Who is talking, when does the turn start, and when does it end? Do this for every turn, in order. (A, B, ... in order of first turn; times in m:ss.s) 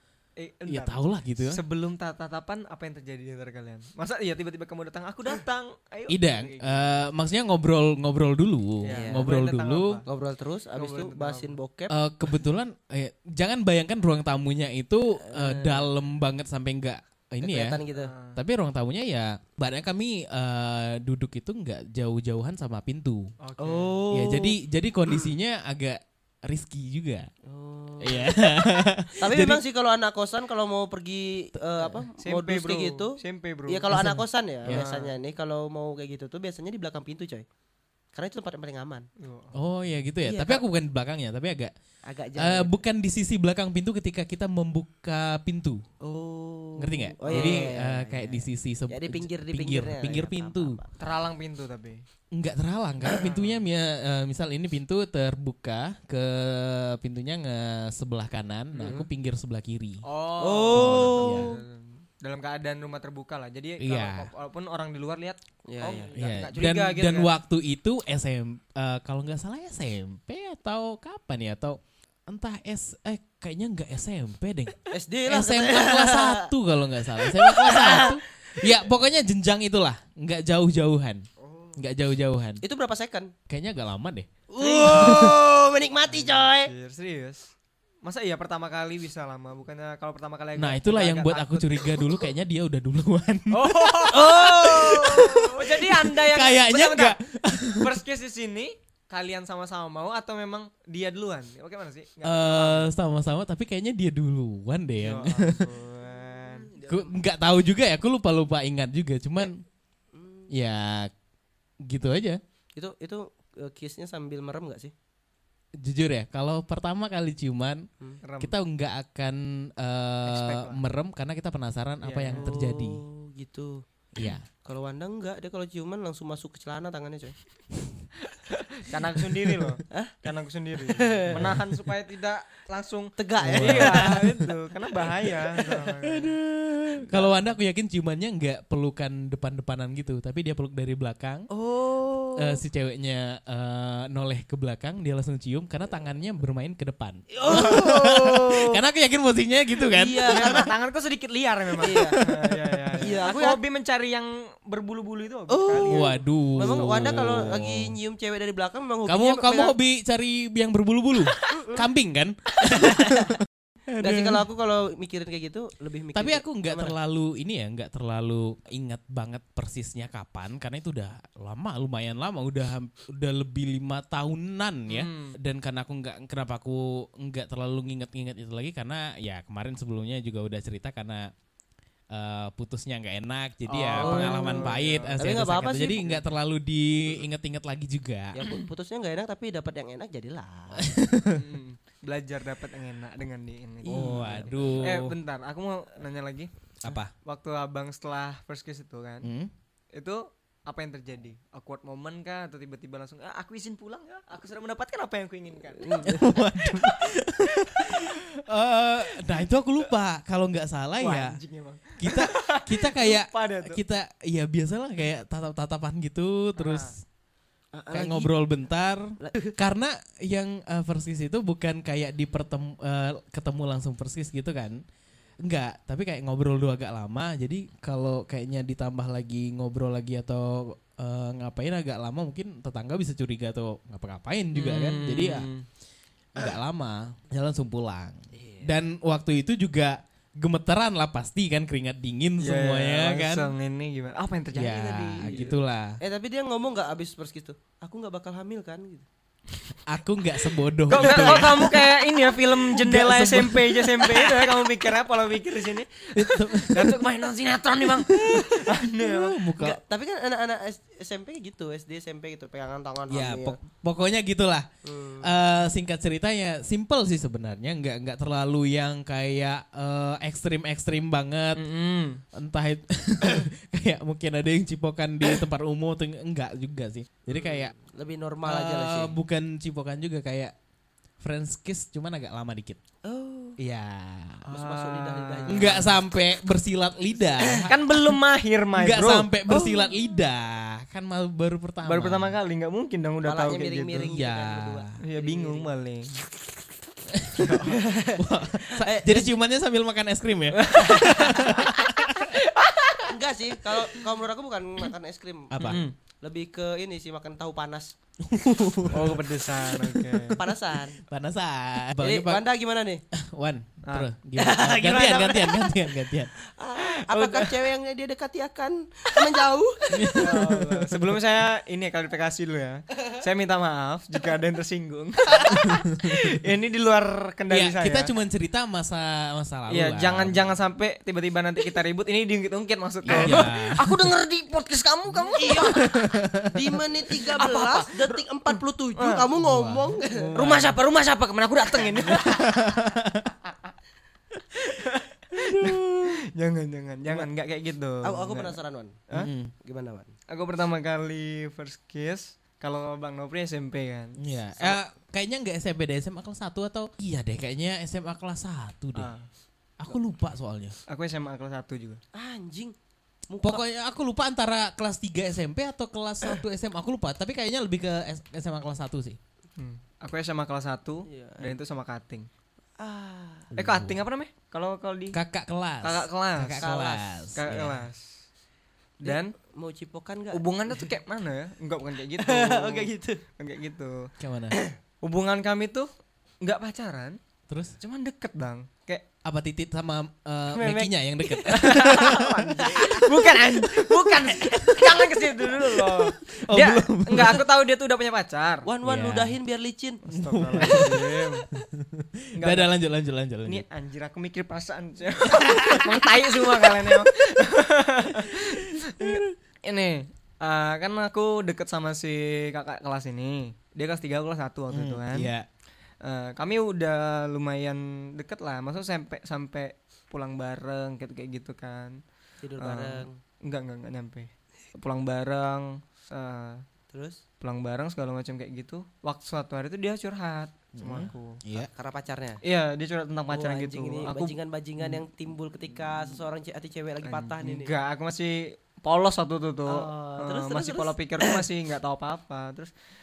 0:00.4-0:07.1 A
0:00.7-0:01.6 B
0:06.1-0:10.0 B
0:08.8-0:10.1 A
0:08.9-0:09.3 C
0:10.1-0:11.9 C
0:10.8-0:11.6 A
0:11.9-0:17.8 B
0:15.3-0:15.9 C
0:17.4-0:18.1 C
0:17.9-0:18.4 A
0:18.4-0:23.3 B
0:23.4-0:24.0 A
0:23.6-0:24.6 C
0:24.1-0:27.3 B
0:27.5-0:37.4 C
0:28.0-0:29.6 B
0:32.2-0:33.8 A
0:33.9-0:34.9 B
0:34.7-0:35.2 A
0:38.1-0:39.1 C
0:39.2-0:39.5 A
0:39.6-0:41.7 B
0:40.2-0:40.6 C
0:42.1-0:42.7 C
0:42.4-0:45.8 B
0:46.0-0:50.9 C
0:46.8-0:50.8 B
0:47.3-0:47.7 A
0:51.0-0:52.0 A
0:52.3-1:00.0 B
0:53.0-0:53.6 A
0:58.7-0:59.0 A
1:00.0-1:07.3 A
1:00.4-1:01.6 C
1:00.7-1:01.6 B
1:03.8-1:04.3 B
1:05.7-1:06.1 C
1:06.1-1:14.8 B
1:14.9-1:16.5 C
1:15.3-1:21.2 B
1:17.2-1:18.8 C
1:21.4-1:21.8 C
1:21.8-1:22.6 B
1:22.6-1:23.3 C
1:23.5-1:24.3 B
1:24.5-1:26.7 C
1:24.6-1:25.3 A
1:24.9-1:25.4 B
1:26.1-1:27.5 A
1:28.0-1:32.0 A
1:30.6-1:38.0 B
1:33.5-1:37.2 A
1:34.1-1:35.7 C
1:37.7-1:42.9 A
1:42.2-1:45.7 B
1:45.0-1:46.7 A
1:46.0-1:47.2 C
1:46.8-1:49.6 B
1:50.1-1:50.5 C
1:50.5-1:51.1 B
1:51.9-1:52.4 B
1:52.8-1:54.9 C
1:55.8-1:57.9 B
1:58.2-1:58.6 A
1:58.4-2:03.0 B
2:00.2-2:00.8 A
2:02.0-2:02.5 A
2:02.3-2:03.8 C
2:04.2-2:04.5 B
2:04.6-2:07.4 C
2:08.7-2:16.4 A
2:09.9-2:10.2 C
2:10.8-2:11.6 C
2:11.3-2:11.6 B
2:13.2-2:14.4 C
2:13.4-2:14.5 B
2:16.0-2:21.5 B
2:17.1-2:17.5 A
2:21.5-2:22.6 C
2:22.4-2:30.7 B
2:27.3-2:28.8 C
2:29.9-2:30.7 C
2:30.3-2:36.2 A
2:31.8-2:32.2 C
2:31.9-2:33.1 B
2:33.0-2:33.6 C
2:35.5-2:39.8 C
2:35.8-2:38.0 B
2:39.1-2:44.5 B
2:41.5-2:41.9 C
2:42.6-2:43.4 C
2:44.0-2:47.0 C
2:46.2-3:01.3 B
2:54.9-2:55.4 A
3:02.1-3:08.4 B
3:03.7-3:05.2 A
3:04.0-3:06.0 C
3:08.3-3:10.9 C
3:10.8-3:11.4 B
3:11.3-3:16.5 A
3:13.8-3:14.8 C
3:13.9-3:15.2 B
3:16.8-3:17.1 B
3:17.2-3:19.3 A
3:19.2-3:19.5 B
3:20.0-3:28.1 A
3:25.8-3:26.3 C
3:26.0-3:31.4 B
3:29.2-3:29.5 A
3:31.0-3:33.8 A
3:32.0-3:37.0 B
3:36.6-3:36.9 A
3:37.7-3:38.3 C
3:37.9-3:44.8 B
3:39.2-3:39.5 C
3:45.4-3:55.5 B
3:54.5-3:55.6 A
3:56.4-4:03.5 B
3:58.4-3:58.7 C
4:02.4-4:05.6 A
4:04.6-4:06.0 B
4:06.0-4:09.1 C
4:09.9-4:12.0 B
4:10.9-4:19.4 A
4:11.0-4:11.4 C
4:12.6-4:14.3 B
4:16.2-4:17.1 B
4:17.8-4:19.8 B
4:19.6-4:23.6 C
4:23.1-4:24.7 B
4:24.8-4:25.3 C
4:25.2-4:31.6 B
4:31.6-4:32.2 A
4:32.3-4:37.7 B
4:37.4-4:39.1 C
4:38.4-4:40.5 B
4:41.2-4:42.8 B
4:43.0-4:43.6 C
4:43.6-4:44.4 B
4:44.5-4:45.8 A
4:44.5-4:46.0 C
4:45.5-4:48.1 B
4:47.3-4:47.7 C
4:47.6-4:49.3 A
4:48.8-4:52.4 B
4:49.5-4:49.9 C
4:51.8-4:54.1 A
4:53.2-4:55.7 C
4:54.1-4:54.9 B
4:55.0-4:56.2 A
4:57.1-4:57.6 B
4:57.4-4:57.8 A
4:57.7-4:59.3 C
4:58.2-5:02.3 B
5:00.6-5:03.1 A
5:01.0-5:01.5 C
5:03.0-5:08.0 C
5:05.5-5:05.8 B
5:05.6-5:05.9 A
5:08.2-5:10.4 B
5:08.9-5:10.4 A
5:10.4-5:11.0 C
5:11.1-5:12.4 B
5:12.0-5:13.0 C
5:13.1-5:16.3 B
5:14.4-5:20.3 C
5:16.8-5:17.6 A
5:19.9-5:21.1 B
5:20.1-5:28.1 A
5:25.6-5:26.3 B
5:27.5-5:30.5 B
5:29.7-5:35.9 A
5:33.0-5:34.0 B
5:33.1-5:33.4 C
5:35.4-5:40.4 C
5:35.6-5:36.8 B
5:37.3-5:39.3 A
5:39.4-5:40.8 B
5:40.3-5:42.6 A
5:42.1-5:43.3 B
5:44.5-5:48.6 A
5:45.4-5:46.2 B
5:48.0-5:49.0 C
5:49.1-5:49.5 B
5:49.6-5:50.1 C
5:50.3-5:54.8 A
5:54.2-5:59.1 B
5:59.0-5:59.3 A
5:59.8-6:00.8 B
6:00.9-6:02.0 A
6:02.1-6:02.8 C
6:03.3-6:03.6 C
6:03.4-6:09.2 B
6:09.6-6:12.3 A
6:11.1-6:11.6 C
6:12.8-6:13.5 C
6:13.5-6:14.0 B
6:13.6-6:15.2 A
6:15.1-6:17.8 B
6:15.8-6:16.8 A
6:16.6-6:17.2 C
6:17.4-6:18.2 A
6:19.0-6:19.3 A
6:19.0-6:20.9 C
6:20.3-6:24.1 A
6:22.2-6:23.2 C
6:24.2-6:24.6 B
6:25.0-6:25.9 A
6:26.4-6:27.2 A
6:27.5-6:27.8 B
6:27.8-6:29.0 A
6:29.2-6:32.5 B
6:30.5-6:38.7 A
6:32.7-6:33.1 C
6:34.4-6:34.9 C
6:34.5-6:34.8 B
6:36.3-6:37.4 B
6:38.6-6:40.0 C
6:38.8-6:39.4 B
6:40.0-6:41.5 A
6:40.1-6:43.6 B
6:40.6-6:40.9 C
6:42.4-6:42.7 A
6:43.5-6:55.3 A
6:45.3-6:46.1 B
6:48.2-6:49.3 B
6:54.7-6:55.5 B
6:56.0-7:02.0 A
7:02.4-7:03.2 C
7:02.6-7:06.6 A
7:06.9-7:07.2 C
7:07.4-7:11.4 A
7:10.8-7:11.7 B
7:11.6-7:12.4 C
7:12.4-7:15.0 A
7:13.3-7:17.7 C
7:17.0-7:22.7 A
7:19.7-7:21.4 C